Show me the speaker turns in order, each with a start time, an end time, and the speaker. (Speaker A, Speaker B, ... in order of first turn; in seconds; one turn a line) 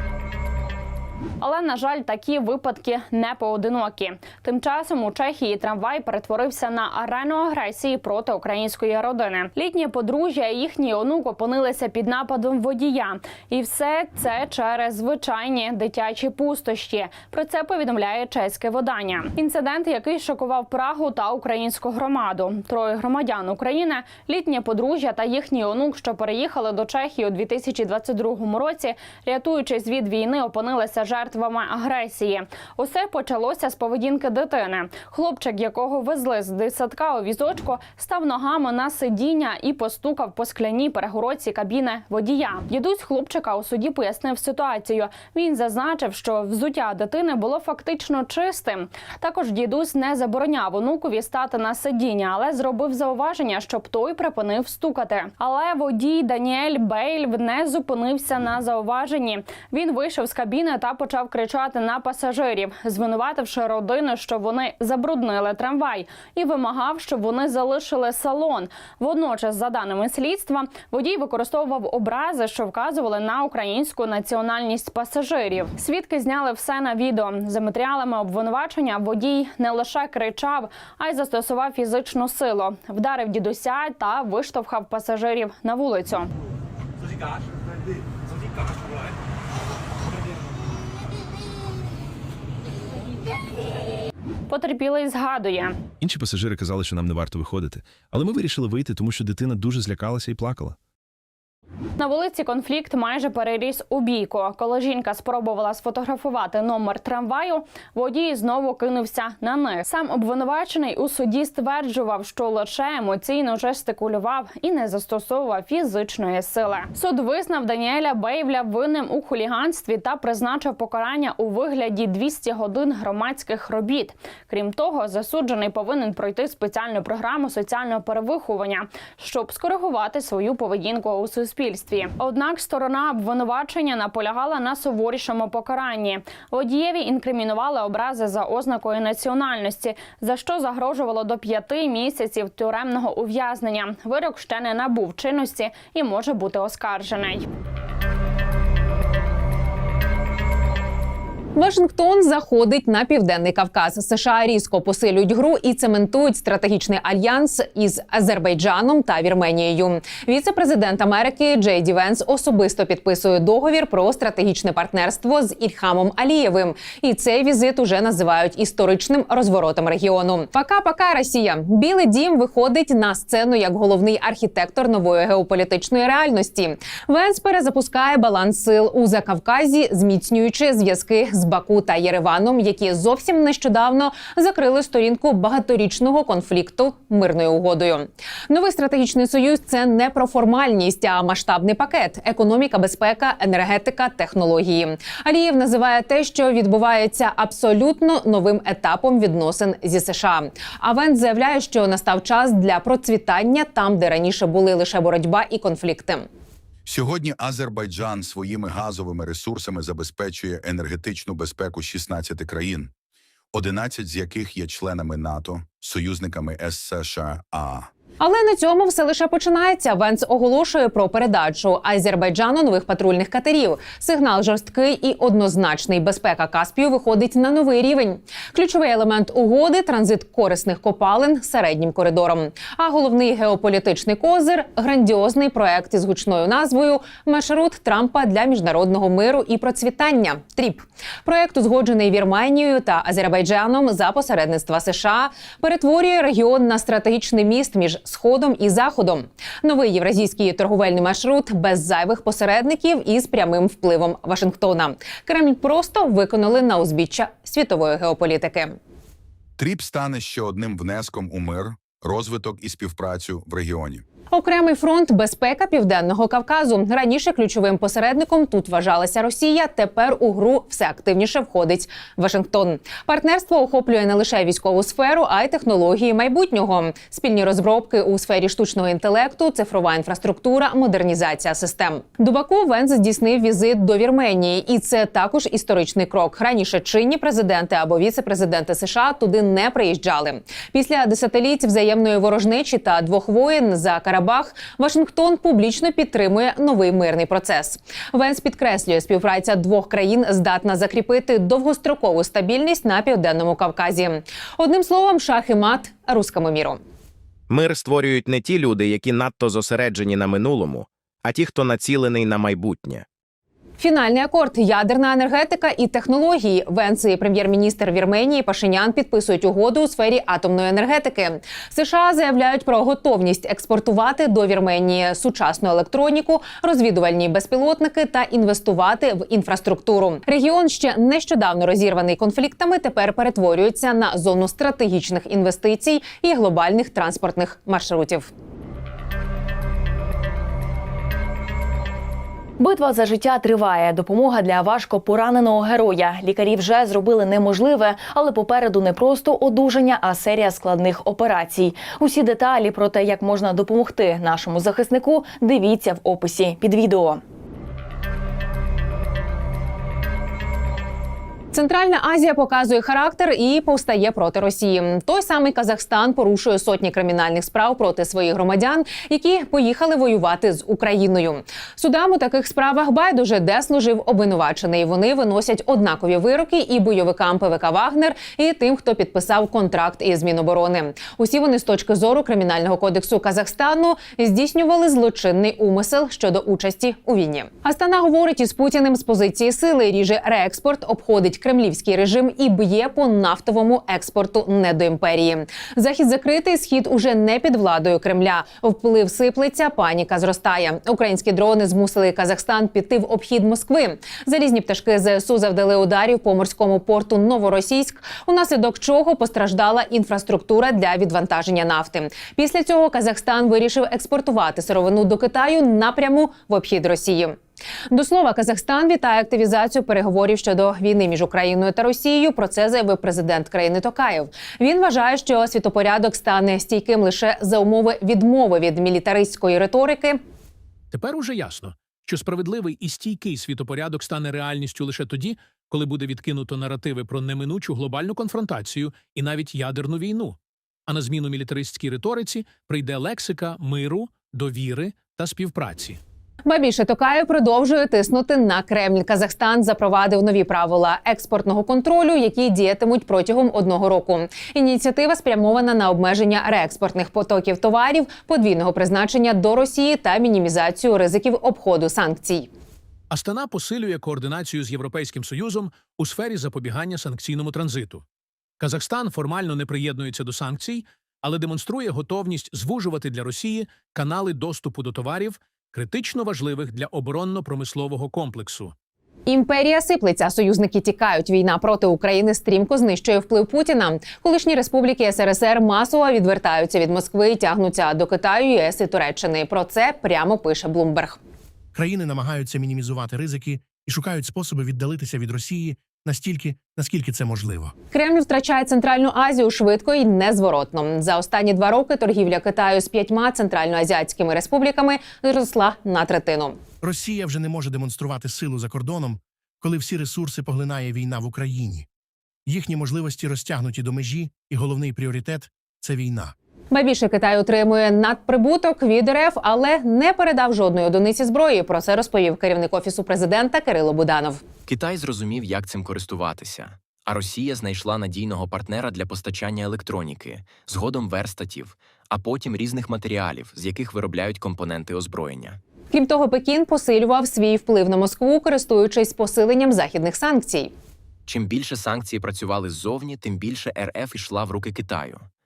Speaker A: 1.4-86.3
Speaker A: 94.5-95.8
Speaker B: 96.0-100.8
Speaker A: 102.0-147.5
Speaker C: 151.6-206.3
Speaker D: 206.9-212.9
Speaker D: 213.5-217.9
Speaker C: 218.2-258.8
Speaker D: 259.6-264.1
Speaker C: 264.3-306.8
Speaker E: 307.5-313.1
Speaker C: 313.8-338.3
Speaker F: 342.6-357.2
Speaker C: 361.5-417.4
Speaker C: 417.9-430.2
Speaker G: 430.9-446.0
Speaker C: 446.5-462.5
Speaker G: 463.1-468.1
Speaker G: 468.6-478.7
Speaker C: 479.3-491.2
Speaker H: 491.7-497.7
Speaker C: 497.9-506.6
Speaker H: 506.8-511.9
Speaker H: 512.5-516.3
Speaker C: 516.7-524.5
Speaker I: 524.7-535.6
Speaker C: 535.9-540.7
Speaker I: 541.3-545.3